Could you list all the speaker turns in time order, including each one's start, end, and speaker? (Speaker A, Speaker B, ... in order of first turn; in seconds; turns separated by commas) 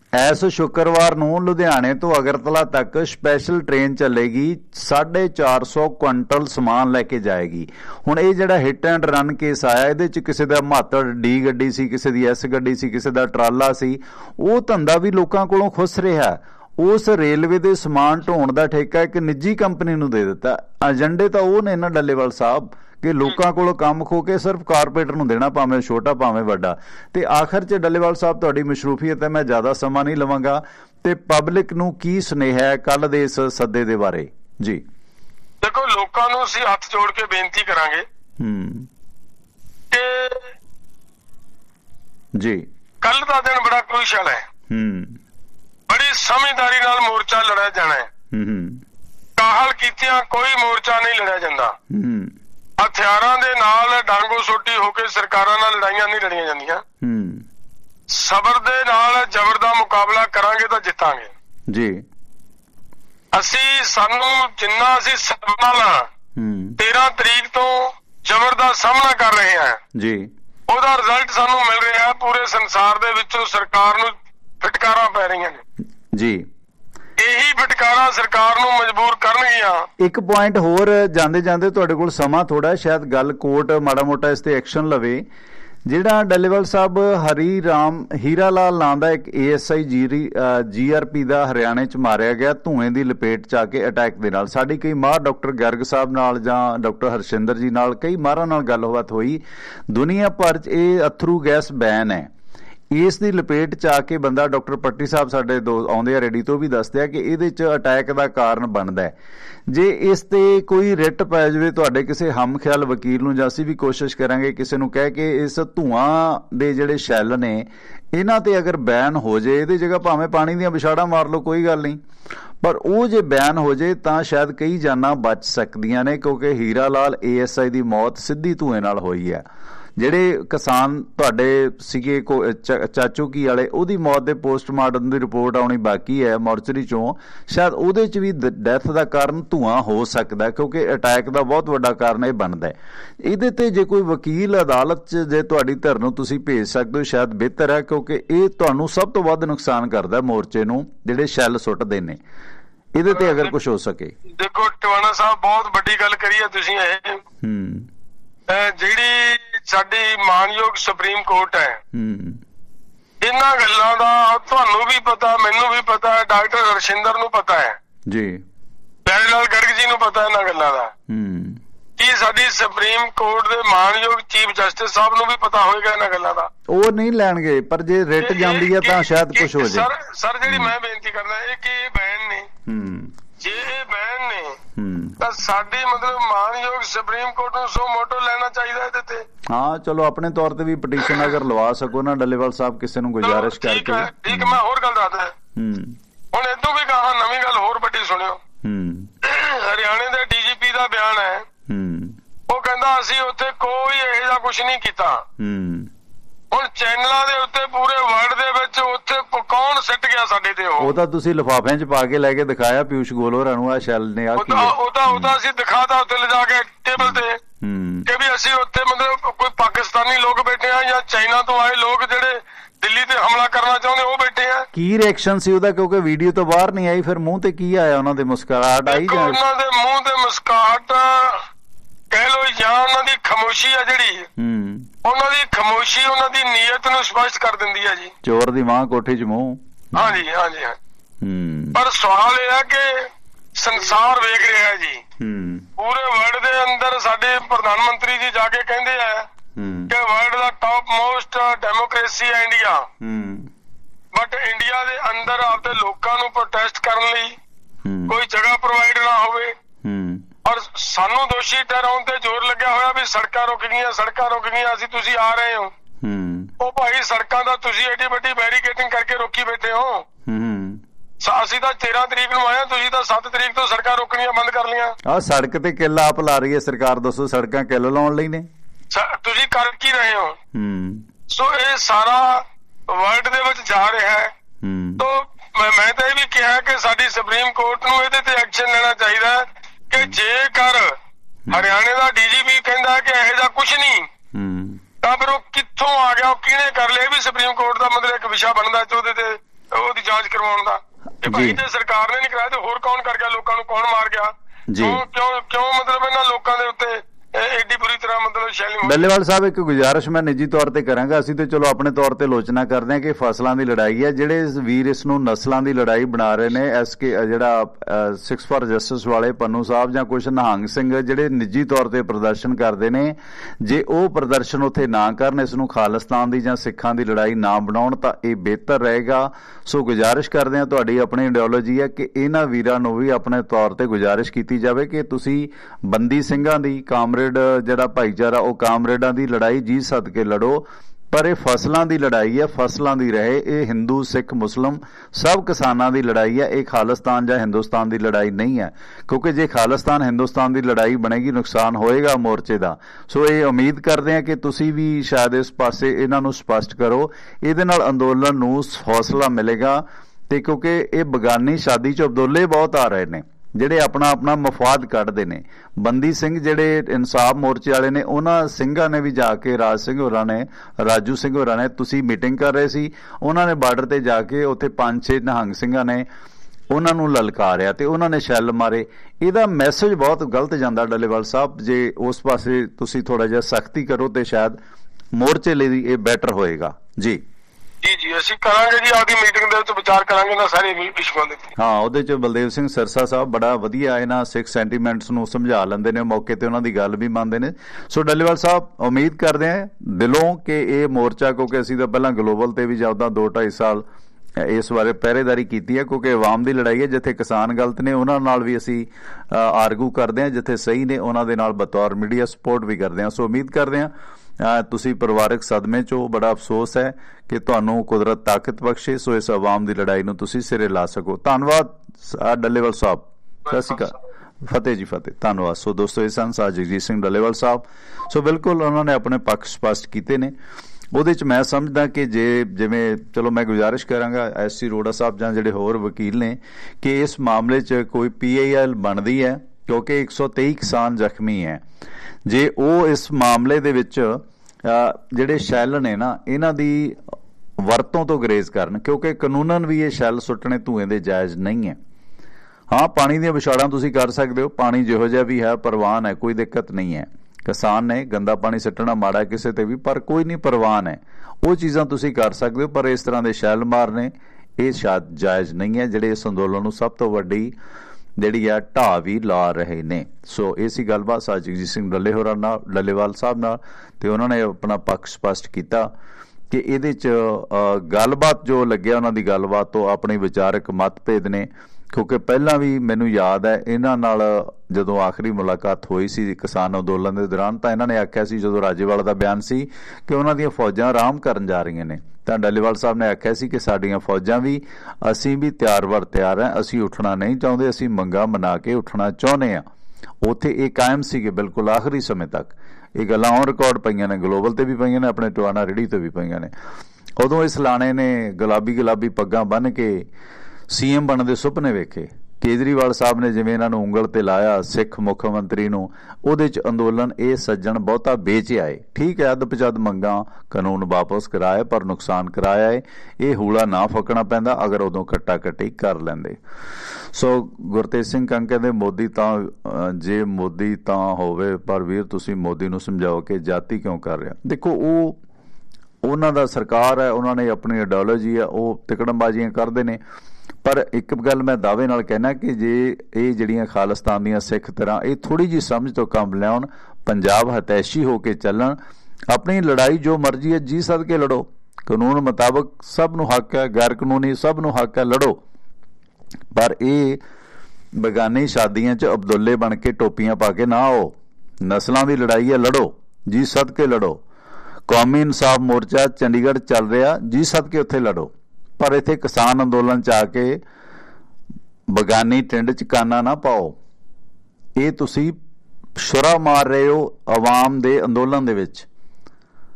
Speaker A: 0.1-34.8, Speaker B: 35.6-38.0, Speaker A: 38.4-38.9, Speaker B: 39.9-40.5, Speaker A: 42.3-42.6, Speaker B: 43.0-44.4, Speaker A: 44.7-45.2, Speaker B: 45.9-48.1, Speaker A: 48.3-48.8, Speaker B: 49.4-51.7, Speaker A: 51.9-52.3, Speaker B: 52.8-56.8, Speaker A: 57.0-57.4, Speaker B: 58.1-61.3, Speaker A: 61.7-62.0, Speaker B: 63.3-66.1, Speaker A: 66.3-66.8, Speaker B: 66.8-69.8, Speaker A: 69.9-70.3, Speaker B: 70.7-75.6, Speaker A: 76.1-76.5, Speaker B: 77.2-79.9, Speaker A: 80.0-85.2, Speaker A: 85.8-102.3, Speaker A: 102.9-109.1, Speaker A: 109.7-122.0, Speaker A: 122.6-129.4, Speaker A: 130.0-152.2, Speaker A: 152.9-154.1, Speaker B: 153.1-153.5, Speaker B: 154.4-157.2, Speaker A: 157.4-157.9, Speaker B: 158.5-161.8, Speaker A: 161.9-162.4, Speaker B: 163.2-167.8, Speaker A: 168.1-168.4, Speaker B: 169.1-170.9, Speaker A: 171.1-171.6, Speaker B: 172.0-176.5, Speaker A: 176.7-179.9, Speaker B: 178.2-182.5, Speaker A: 180.4-180.7, Speaker A: 182.7-183.1, Speaker B: 183.4-184.6, Speaker A: 184.8-185.2, Speaker B: 185.2-189.2, Speaker A: 189.5-194.6, Speaker B: 193.2-195.3, Speaker A: 195.6-196.0, Speaker B: 196.3-198.4, Speaker A: 198.6-199.1, Speaker B: 199.2-201.5, Speaker A: 201.7-202.2, Speaker B: 202.5-205.2, Speaker A: 205.4-205.9, Speaker B: 206.5-210.9, Speaker A: 210.8-215.4, Speaker B: 214.3-217.4, Speaker A: 217.0-218.1, Speaker B: 218.1-224.7, Speaker A: 224.7-229.4, Speaker B: 228.9-231.4, Speaker B: 232.1-234.3, Speaker A: 234.4-234.9, Speaker B: 235.0-238.1, Speaker A: 238.2-240.2, Speaker B: 239.9-240.8, Speaker A: 241.2-241.8, Speaker B: 241.7-245.0, Speaker A: 245.2-245.7, Speaker B: 245.8-249.3, Speaker A: 249.6-249.9, Speaker B: 249.9-252.9, Speaker A: 253.0-253.5, Speaker B: 254.1-257.4, Speaker A: 257.8-258.1, Speaker B: 258.1-259.5, Speaker A: 259.8-260.2, Speaker B: 260.4-265.7, Speaker A: 266.0-266.5, Speaker B: 266.6-270.1, Speaker A: 270.2-270.8, Speaker B: 271.2-274.9, Speaker A: 275.0-278.5, Speaker B: 278.9-280.4, Speaker A: 280.5-281.0, Speaker B: 281.3-284.3, Speaker A: 284.6-285.0, Speaker B: 285.0-290.9, Speaker A: 291.5-291.7, Speaker B: 291.5-294.1, Speaker A: 294.3-294.8, Speaker B: 295.0-309.0, Speaker A: 301.2-301.6, Speaker A: 304.7-305.0, Speaker A: 308.8-376.1, Speaker A: 376.7-384.6, Speaker A: 385.1-387.2, Speaker B: 387.8-391.5, Speaker A: 391.6-403.8, Speaker A: 404.4-430.3, Speaker B: 423.5-423.9, Speaker A: 430.9-441.6, Speaker A: 442.3-451.8, Speaker A: 452.7-467.5, Speaker A: 468.2-475.9, Speaker A: 476.5-499.6, Speaker A: 500.2-506.5, Speaker A: 507.2-510.1, Speaker A: 510.7-526.4, Speaker A: 527.1-535.2, Speaker A: 536.0-540.0, Speaker A: 540.6-548.8, Speaker A: 549.3-555.4, Speaker A: 556.5-557.2, Speaker A: 558.0-564.2, Speaker A: 564.9-570.6, Speaker A: 571.9-573.8, Speaker A: 574.8-575.4, Speaker A: 576.0-578.9